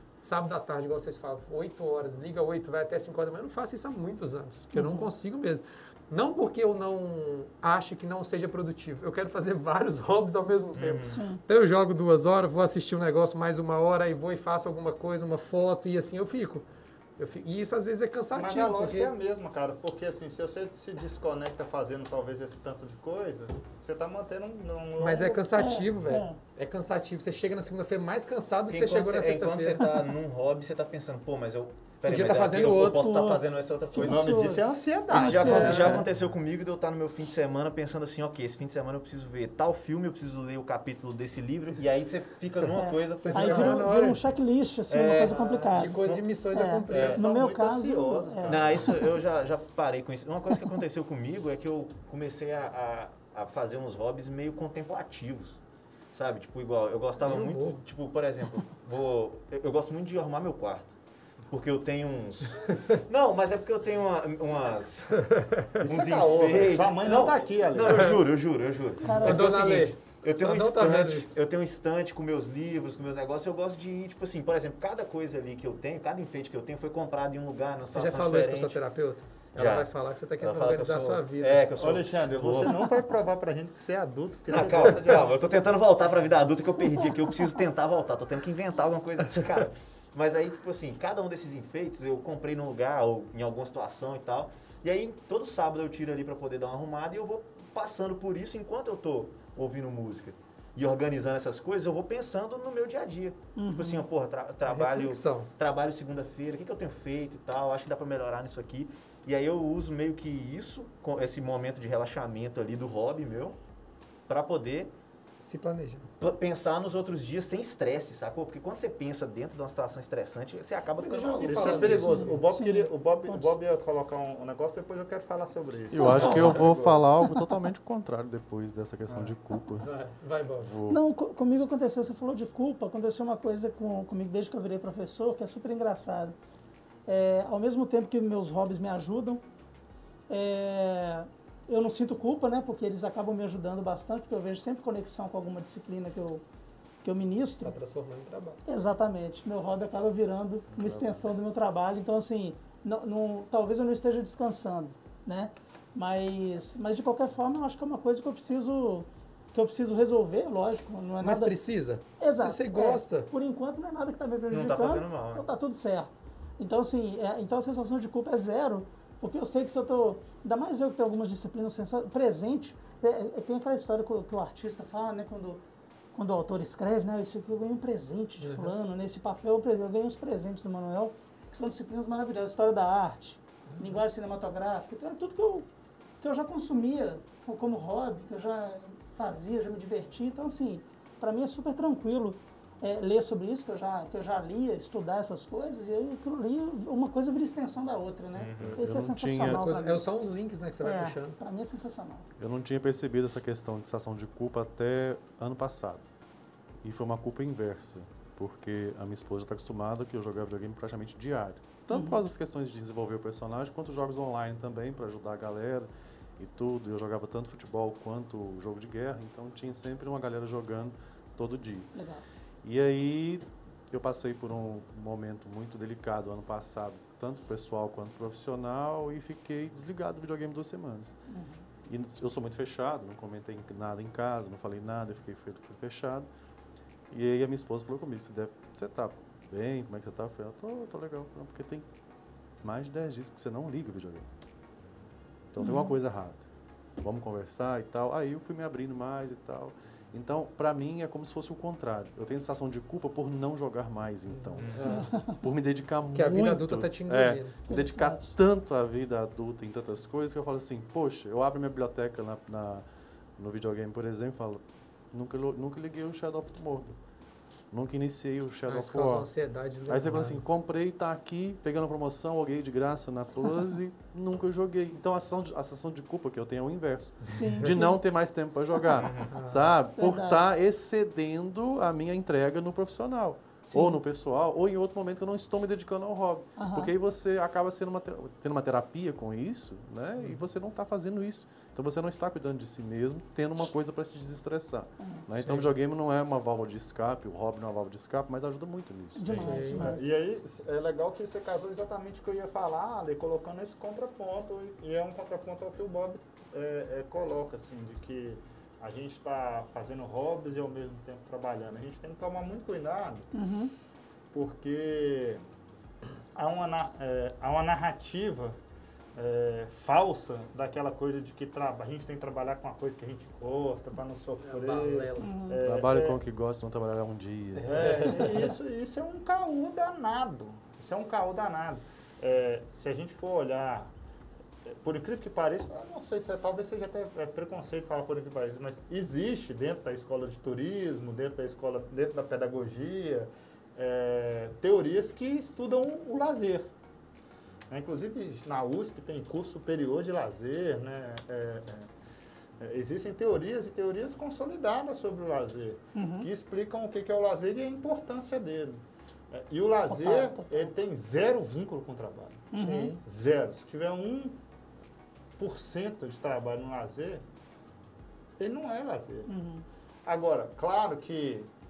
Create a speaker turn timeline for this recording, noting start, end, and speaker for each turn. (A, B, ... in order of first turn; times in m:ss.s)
0:00.2-0:16.6 A
0:04.7-0:05.1 B
0:10.7-0:11.2 C
0:11.1-0:11.4 B
0:17.2-0:19.1 A
0:18.3-0:25.5 D
0:25.0-0:30.0 A
0:25.6-0:26.4 B
0:28.7-0:34.3 C
0:32.1-0:33.1 A
0:32.9-0:34.6 B
0:34.0-0:36.0 D
0:35.1-0:43.9 C
0:35.1-0:36.0 B
0:35.2-0:36.0 A
0:42.8-0:49.1 B
0:43.2-0:44.2 A
0:44.9-0:45.5 C
0:45.3-0:45.8 D
0:45.7-0:47.2 A
0:46.9-0:48.9 D
0:46.9-0:47.1 C
0:48.4-0:55.6 C
0:56.1-1:00.9 C
0:57.2-0:57.8 A
1:01.5-1:05.2 C
1:05.2-1:05.6 A
1:05.8-1:08.1 D
1:05.8-1:18.8 C
1:09.0-1:09.4 B
1:09.2-1:11.4 A
1:17.9-1:21.6 A
1:19.6-1:19.9 C
1:20.4-1:22.7 C
1:21.8-1:25.3 D
1:24.5-1:53.6 C
1:43.6-1:44.1 B
1:44.6-1:45.5 A
1:54.3-1:54.9 C
1:55.4-1:56.1 A
1:56.2-2:02.2 C
2:01.0-2:02.4 A
2:01.3-2:03.5 B
2:01.4-2:07.0 D
2:05.9-2:09.9 E
2:06.0-2:06.6 B
2:07.2-2:07.5 B
2:09.1-2:09.3 D
2:09.8-2:10.7 A
2:10.6-2:11.0 E
2:10.9-2:16.3 B
2:17.0-2:19.4 B
2:20.3-2:26.4 B
2:27.0-2:27.8 B
2:27.6-2:28.6 A
2:28.6-2:41.6 B
2:30.7-2:31.2 E
2:41.2-2:43.3 A
2:42.2-2:55.6 B
2:44.5-2:45.4 C
2:56.1-3:05.7 B
2:58.4-2:58.7 A
3:03.7-3:04.0 A
3:06.2-3:20.1 B
3:18.3-3:18.8 C
3:18.6-3:19.7 E
3:19.3-3:21.4 A
3:20.8-3:22.2 B
3:22.4-3:26.1 E
3:26.8-3:41.9 E
3:31.9-3:32.2 B
3:41.9-3:42.2 B
3:42.6-3:51.2 E
3:51.3-3:51.6 B
3:51.8-3:56.3 E
3:57.1-4:01.8 E
4:02.6-4:04.3 E
4:05.5-4:06.4 E
4:05.6-4:05.9 B
4:07.0-4:22.8 E
4:14.3-4:15.1 A
4:14.6-4:14.9 C
4:14.8-4:15.4 B
4:16.1-4:17.6 A
4:17.6-4:18.3 B
4:23.4-4:27.0 E
4:27.7-4:29.3 E
4:28.7-4:30.4 A
4:29.9-4:59.8 E
4:37.3-4:38.0 B
4:38.9-4:39.3 C
4:39.3-4:39.7 A
4:39.9-4:40.4 B
4:43.7-4:44.0 B
4:46.6-4:46.9 B
4:55.4-4:55.7 A
4:59.2-5:00.1 B
4:59.3-4:59.9 A
4:59.7-5:13.3 D
5:13.3-5:13.7 B
5:14.3-5:15.4 D
5:16.3-5:18.6 D
5:19.2-5:26.2 D
5:24.4-5:25.3 A
5:25.2-5:25.6 B
5:25.6-5:28.3 E
5:27.6-5:33.9 D
5:34.6-5:46.7 D
5:47.7-5:51.9 D
5:52.6-6:04.4 D
5:56.0-5:56.3 B
5:59.9-6:00.7 B
6:02.5-6:03.0 B
6:02.6-6:03.0 A
6:05.4-6:07.2 D
6:08.4-6:09.3 D
6:09.3-6:09.6 B
6:10.0-6:11.5 D